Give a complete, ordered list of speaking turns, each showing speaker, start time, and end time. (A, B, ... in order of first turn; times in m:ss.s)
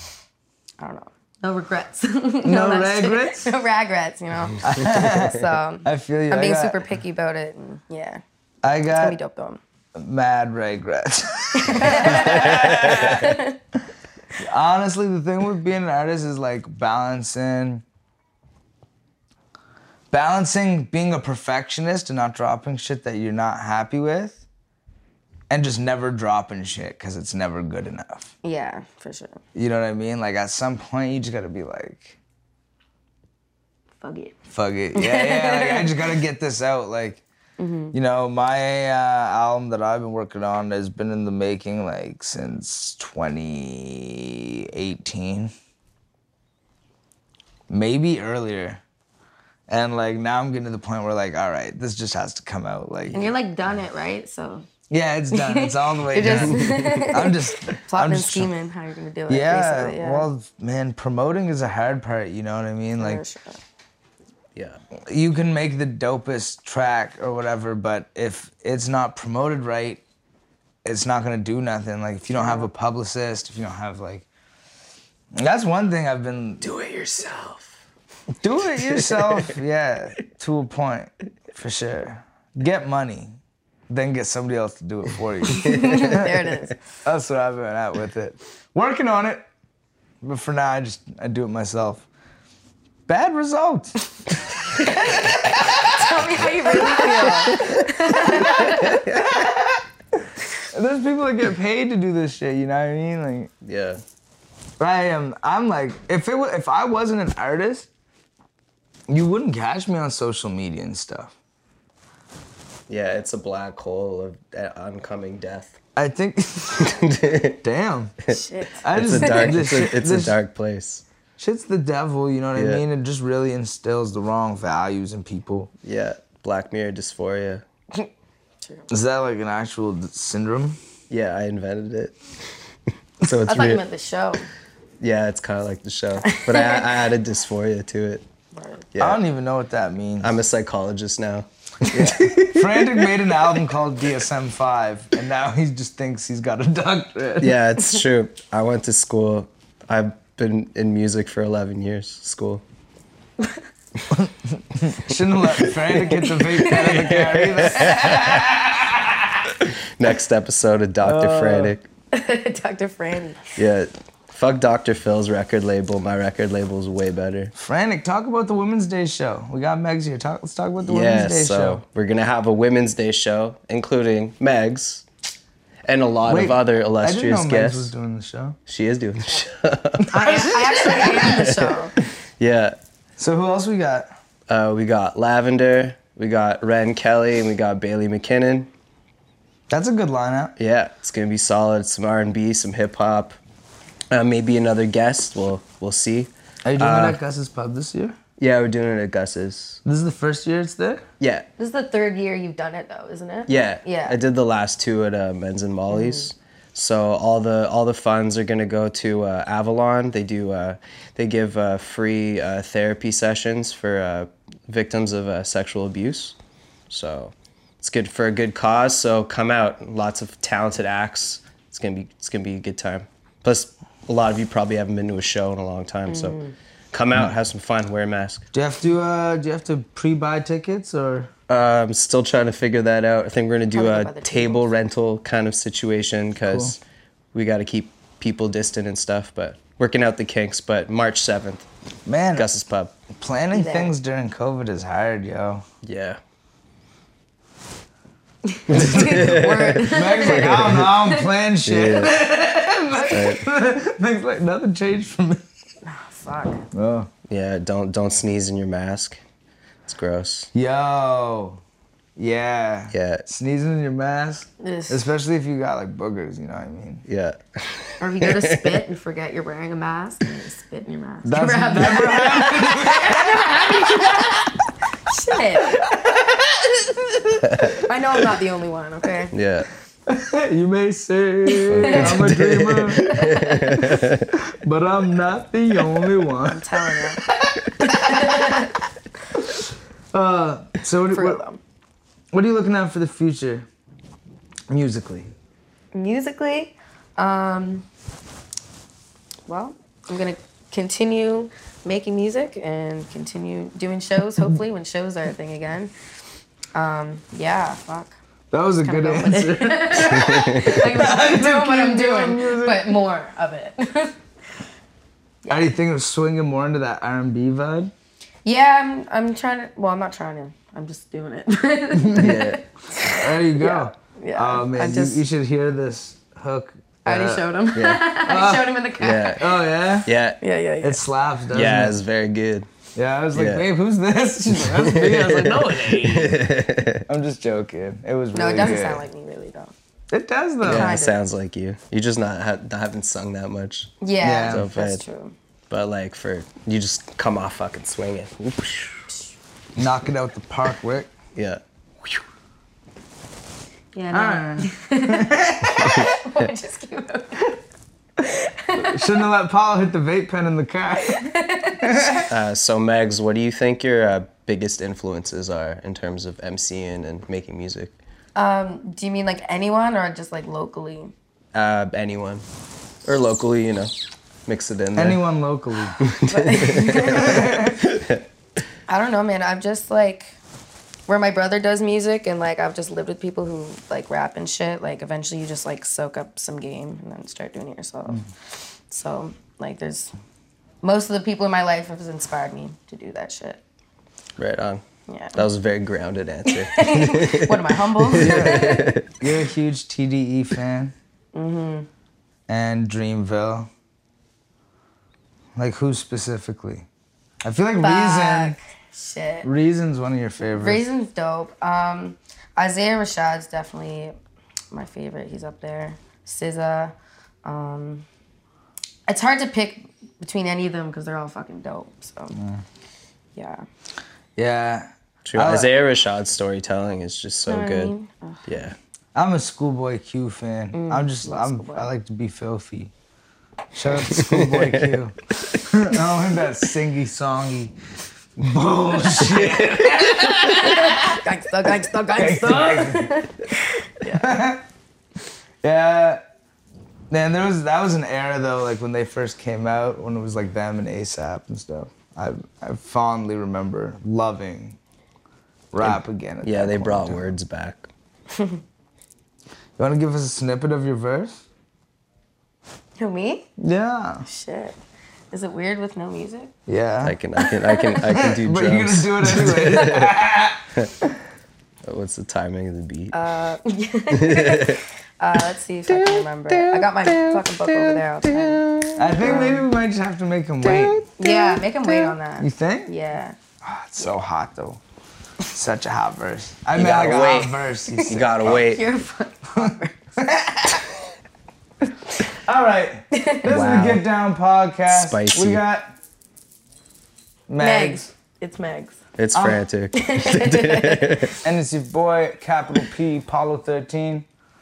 0:00.8-0:08.2 A
0:02.4-0:03.5 B
0:04.6-0:06.8 B
0:08.6-0:09.2 B
0:08.9-0:09.6 A
0:10.0-0:13.4 B
0:11.6-0:13.6 A
0:12.3-0:13.2 C
0:14.4-0:17.8 B
0:20.1-0:24.4 B
0:25.5-0:28.3 B
0:28.4-0:29.4 A
0:29.6-0:32.2 B
0:34.0-0:34.4 A
0:34.5-0:37.2 B
0:35.0-0:36.1 A
0:37.6-0:38.0 A
0:37.9-0:45.5 B
0:47.7-0:48.8 B
0:49.7-0:53.2 B
0:53.1-0:54.7 A
0:54.9-0:58.5 B
0:55.3-1:00.3 A
0:56.2-0:57.1 C
0:59.3-1:03.2 B
1:03.0-1:03.6 A
1:05.1-1:10.0 B
1:10.8-1:14.3 B
1:12.4-1:12.7 A
1:15.4-1:16.6 B
1:16.6-1:17.7 C
1:18.4-1:23.4 B
1:18.8-1:19.5 C
1:23.9-1:26.4 B
1:25.5-1:26.8 A
1:25.7-1:26.1 C
1:27.0-1:29.4 B
1:30.2-1:32.1 B
1:33.1-1:34.0 B
1:34.8-1:35.7 B
1:35.8-1:39.0 A
1:37.2-1:37.6 B
1:38.3-1:39.8 B
1:38.9-1:39.3 C
1:40.7-1:43.5 B
1:43.6-1:44.0 C
1:44.8-1:47.9 B
1:49.1-1:51.4 B
1:52.9-1:55.8 C
1:56.0-1:56.9 B
1:56.8-1:57.6 C
1:57.6-1:58.2 B
1:58.3-1:59.6 A
1:58.8-2:00.4 B
1:58.9-2:01.0 C
2:01.4-2:05.7 B
2:02.6-2:02.8 C
2:05.8-2:07.6 C
2:08.9-2:10.8 B
2:11.1-2:12.2 C
2:13.2-2:13.8 C
2:13.5-2:14.5 A
2:15.0-2:18.2 C
2:16.3-2:16.9 A
2:18.5-2:18.9 A
2:18.9-2:19.2 C
2:19.0-2:20.3 B
2:20.2-2:23.2 C
2:21.9-2:27.6 B
2:27.4-2:32.6 C
2:34.1-2:39.5 B
2:35.6-2:38.5 C
2:36.4-2:36.9 A
2:40.0-2:41.9 C
2:41.0-2:41.8 B
2:42.1-2:43.4 A
2:43.6-2:47.5 C
2:47.6-2:51.8 B
2:50.8-2:55.0 C
2:55.9-2:57.9 C
2:56.2-2:58.6 B
2:58.7-3:00.2 C
3:00.1-3:01.9 A
3:00.1-3:01.4 B
3:01.2-3:01.7 C
3:02.4-3:02.8 C
3:03.2-3:04.1 B
3:04.5-3:08.7 C
3:09.7-3:10.6 B
3:10.6-3:13.4 C
3:14.1-3:17.2 C
3:16.7-3:18.2 B
3:18.4-3:19.8 C
3:19.8-3:21.0 B
3:21.2-3:21.5 C
3:21.6-3:24.2 A
3:23.5-3:36.4 C
3:25.9-3:26.3 A
3:36.9-3:46.4 C
3:46.1-3:46.6 A
3:46.9-3:48.4 C
3:48.5-3:51.3 B
3:51.5-3:56.8 C
3:53.7-3:54.7 A
3:56.4-3:56.8 B
3:57.3-4:01.7 C
4:02.1-4:02.5 B
4:02.3-4:03.0 C
4:03.1-4:05.6 B
4:03.5-4:03.9 A
4:05.8-4:06.2 C
4:08.5-4:11.3 A
4:08.7-4:11.0 C
4:08.8-4:09.3 B
4:09.8-4:15.4 B
4:11.6-4:12.2 C
4:13.1-4:13.4 C
4:15.8-4:16.6 A
4:16.7-4:17.1 B
4:17.3-4:19.2 C
4:19.9-4:20.5 C
4:20.5-4:21.6 B
4:22.2-4:27.0 B
4:22.9-4:23.2 C
4:24.6-4:25.1 A
4:27.1-4:28.8 C
4:28.0-4:35.8 A
4:31.2-4:33.8 B
4:35.9-4:36.4 B
4:37.4-4:37.8 C
4:37.8-4:39.3 A
4:39.3-4:39.7 C
4:40.1-4:48.7 B
4:41.5-4:42.2 A
4:41.7-4:44.2 C
4:43.0-4:43.7 A
4:46.4-4:47.2 A
4:47.8-4:48.8 A
4:49.4-4:51.4 B
4:51.1-4:51.6 A
4:52.3-4:53.7 B
4:54.7-4:55.3 B
4:55.9-4:57.9 A
4:59.5-5:05.9 A
5:06.8-5:08.2 A
5:08.5-5:13.0 B
5:08.8-5:14.2 A
5:09.9-5:10.8 C
5:15.4-5:15.7 A
5:15.5-5:17.9 B
5:18.4-5:25.2 A
5:22.2-5:22.6 C
5:23.1-5:30.1 B
5:27.0-5:29.5 A
5:29.0-5:29.4 C
5:30.0-5:30.4 C
5:30.4-5:31.0 A
5:30.8-5:32.0 B
5:31.5-5:32.7 C
5:33.0-5:36.4 B
5:33.3-5:33.6 C
5:34.6-5:37.0 C
5:37.1-5:39.0 B
5:38.3-5:39.7 A
5:40.1-5:40.9 B
5:40.6-5:41.2 A
5:40.6-5:45.0 C
5:44.0-5:45.3 A
5:44.2-5:44.7 B
5:45.7-5:49.1 C
5:49.8-5:51.1 B
5:51.4-5:52.2 C
5:53.9-5:57.6 A
5:54.1-5:56.1 B
5:55.8-5:56.5 C
5:58.2-5:59.0 A
5:58.8-6:01.3 B
6:01.0-6:02.3 A
6:01.8-6:02.2 B
6:02.3-6:07.9 C
6:08.4-6:11.1 A
6:11.5-6:12.4 C
6:13.0-6:13.9 C
6:14.5-6:15.2 C
6:15.0-6:16.0 B
6:16.0-6:18.2 C
6:16.3-6:17.6 A
6:17.0-6:17.8 B
6:18.9-6:20.4 A
6:21.1-6:30.1 A
6:30.8-6:33.6 A
6:34.4-6:39.1 C
6:35.1-6:35.5 A
6:36.5-6:39.0 A
6:38.2-6:41.0 B
6:41.3-6:41.9 A
6:42.5-6:43.7 B
6:45.6-6:46.9 B
6:47.4-6:48.6 B
6:47.8-6:49.5 A
6:49.4-6:50.9 B
6:50.5-6:54.2 A
6:54.7-6:58.1 A
6:59.1-7:02.4 A
7:02.3-7:02.6 B
7:03.4-7:03.6 A
7:04.4-7:05.7 B
7:05.3-7:07.9 C
7:07.5-7:08.5 A
7:08.5-7:08.8 C
7:09.2-7:12.9 B
7:10.7-7:11.9 A
7:13.8-7:17.7 B
7:14.1-7:15.0 C
7:18.4-7:21.0 B
7:19.2-7:20.4 C
7:20.3-7:24.4 A
7:22.2-7:23.1 B
7:24.1-7:24.6 B
7:25.6-7:26.2 B
7:27.1-7:34.8 B
7:35.7-7:37.3 B
7:35.8-7:37.9 C
7:39.8-7:41.4 B
7:43.0-7:43.5 A
7:43.6-7:44.3 B
7:44.3-7:44.8 A
7:45.3-7:46.5 A
7:46.7-7:47.2 B
7:47.0-7:50.2 C
7:48.0-7:51.2 B
7:51.8-7:53.2 C
7:53.1-7:58.7 A
7:54.2-7:54.8 C
7:55.9-7:59.5 C
7:59.0-8:01.0 B
7:59.2-7:59.6 A
8:00.6-8:01.4 C
8:01.2-8:03.4 A
8:02.4-8:02.9 B
8:03.6-8:04.8 B
8:05.5-8:08.6 B
8:06.7-8:08.9 C
8:07.9-8:10.0 A
8:09.6-8:10.9 B
8:12.3-8:15.9 B
8:13.1-8:13.5 A
8:13.4-8:14.0 C
8:14.9-8:15.6 C
8:17.5-8:18.1 B
8:17.6-8:19.0 A
8:19.2-8:21.4 C
8:19.3-8:19.6 B
8:19.9-8:21.2 A
8:21.4-8:24.3 B